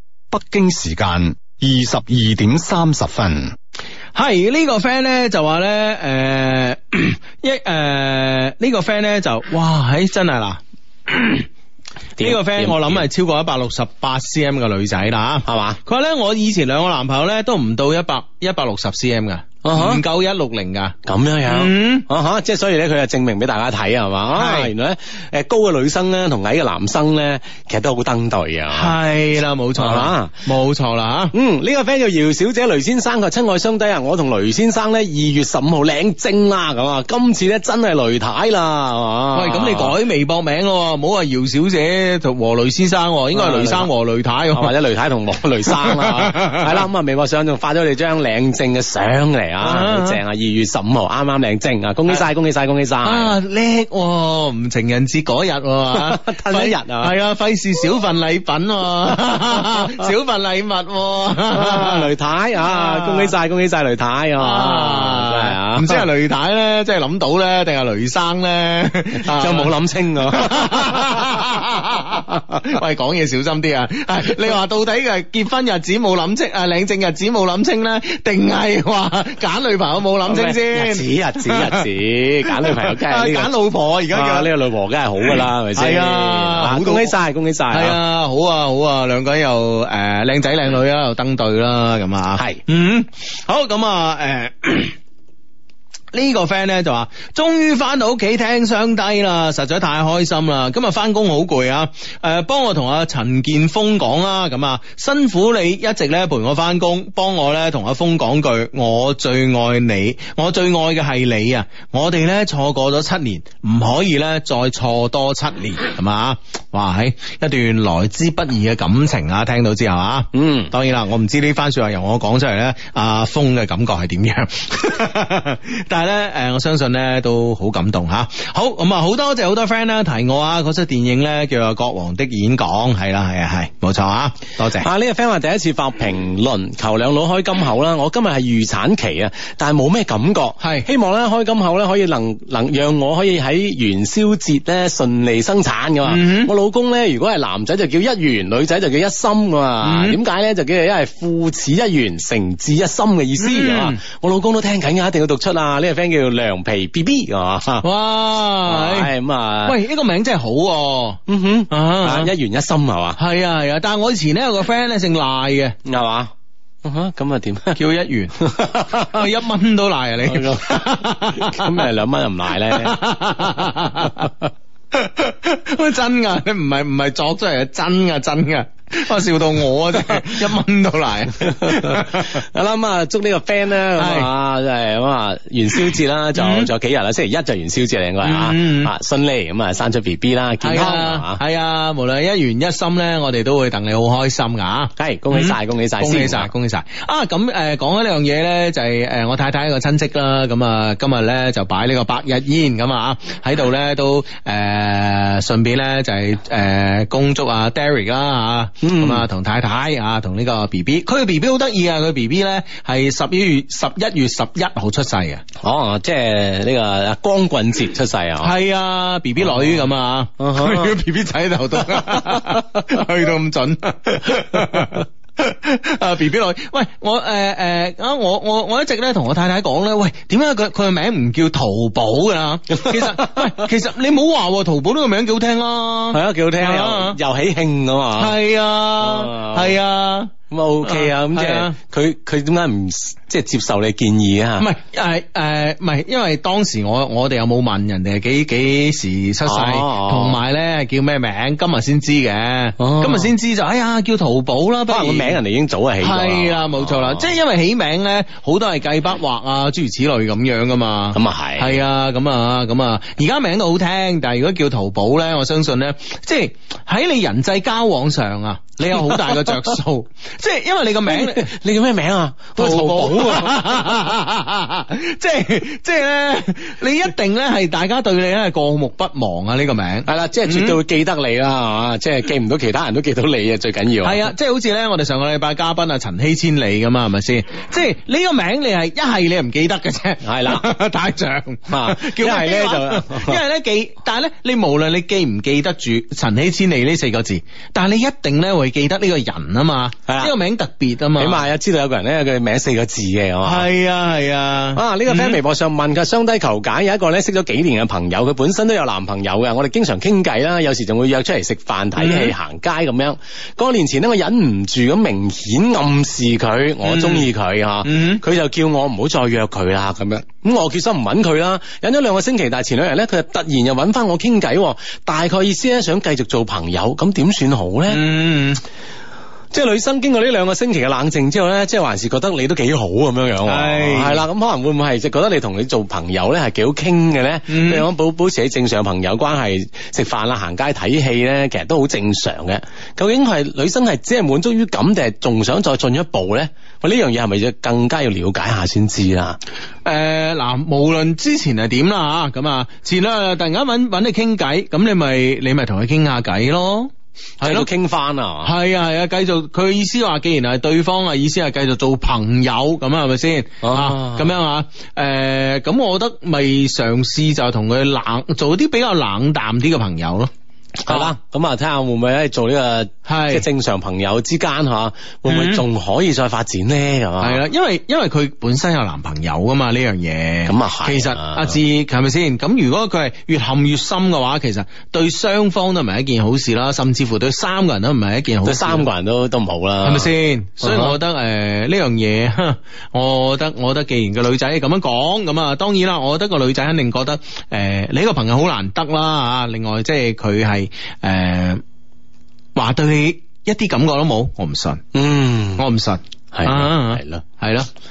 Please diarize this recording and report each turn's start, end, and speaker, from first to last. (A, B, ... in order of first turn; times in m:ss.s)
0:00.3-0:03.6 A
0:04.1-0:11.4 B
0:12.2-0:13.0 C
0:12.2-0:22.0 B
0:15.4-0:15.8 C
0:19.6-0:20.0 C
0:21.0-0:29.0 C
0:24.3-0:24.7 B
0:28.7-0:31.3 B
0:29.8-0:30.4 C
0:31.3-0:39.9 C
0:39.3-0:44.7 B
0:43.3-0:43.9 C
0:44.5-0:53.4 C
0:45.7-0:46.8 B
0:49.6-0:50.2 B
0:53.0-1:02.1 B
0:55.9-0:57.1 C
1:01.5-1:06.0 C
1:02.6-1:03.3 B
1:04.4-1:09.7 B
1:09.2-1:11.2 C
1:10.3-1:21.8 B
1:20.3-1:23.5 C
1:22.5-1:24.5 B
1:24.1-1:28.0 C
1:25.3-1:27.1 B
1:27.7-1:35.0 B
1:32.4-1:32.6 C
1:36.1-2:14.9 B
2:00.3-2:00.7 C
2:14.7-2:37.9 C
2:20.6-2:20.9 B
2:26.0-2:26.5 B
2:29.8-2:30.2 B
2:33.4-2:34.0 B
2:37.8-2:39.1 B
2:38.6-2:39.8 C
2:39.6-2:42.3 B
2:41.3-2:43.2 C
2:43.2-2:45.8 B
2:45.8-2:46.3 C
2:46.8-2:47.8 C
2:47.8-2:51.8 B
2:48.4-2:49.2 C
2:50.3-2:53.0 C
2:52.7-2:54.3 B
2:54.9-3:02.4 B
3:01.4-3:11.4 C
3:04.0-3:04.3 B
3:05.8-3:06.7 B
3:08.2-3:08.9 B
3:10.6-3:35.4 B
3:15.0-3:16.5 C
3:28.8-3:29.2 C
3:35.6-3:38.5 C
3:38.4-3:57.2 B
3:40.4-3:41.0 C
3:52.7-3:53.6 C
3:56.1-3:58.4 C
3:58.2-4:00.3 B
3:59.0-3:59.8 C
4:00.5-4:04.7 C
4:00.8-4:01.7 B
4:04.6-4:15.4 B
4:09.4-4:10.4 C
4:12.8-4:13.3 C
4:14.9-4:17.3 C
4:16.0-4:31.5 B
4:21.1-4:21.8 C
4:31.1-4:33.6 C
4:32.6-4:40.8 B
4:40.0-4:44.3 C
4:44.0-5:01.4 B
4:50.2-4:50.7 C
4:51.7-4:53.4 C
5:00.1-5:00.3 C
5:01.2-5:03.7 C
5:03.4-5:05.4 B
5:04.7-5:28.0 C
5:12.0-5:12.3 B
5:16.8-5:17.3 B
5:17.8-5:18.2 B
5:27.9-5:28.6 B
5:29.5-5:49.4 C
5:33.4-5:34.2 B
5:37.5-5:37.9 B
5:49.8-5:57.7 B
5:57.4-5:58.5 C
5:58.4-6:10.3 B
6:03.6-6:04.3 C
6:10.8-6:17.4 C
6:10.9-6:11.1 B
6:13.0-6:13.4 B
6:15.3-6:15.6 B
6:17.2-6:28.9 B
6:20.4-6:21.6 C
6:28.4-6:31.0 C
6:29.8-6:41.6 B
6:42.6-6:44.8 B
6:44.9-6:45.6 C
6:45.6-6:47.7 B
6:46.3-6:47.2 C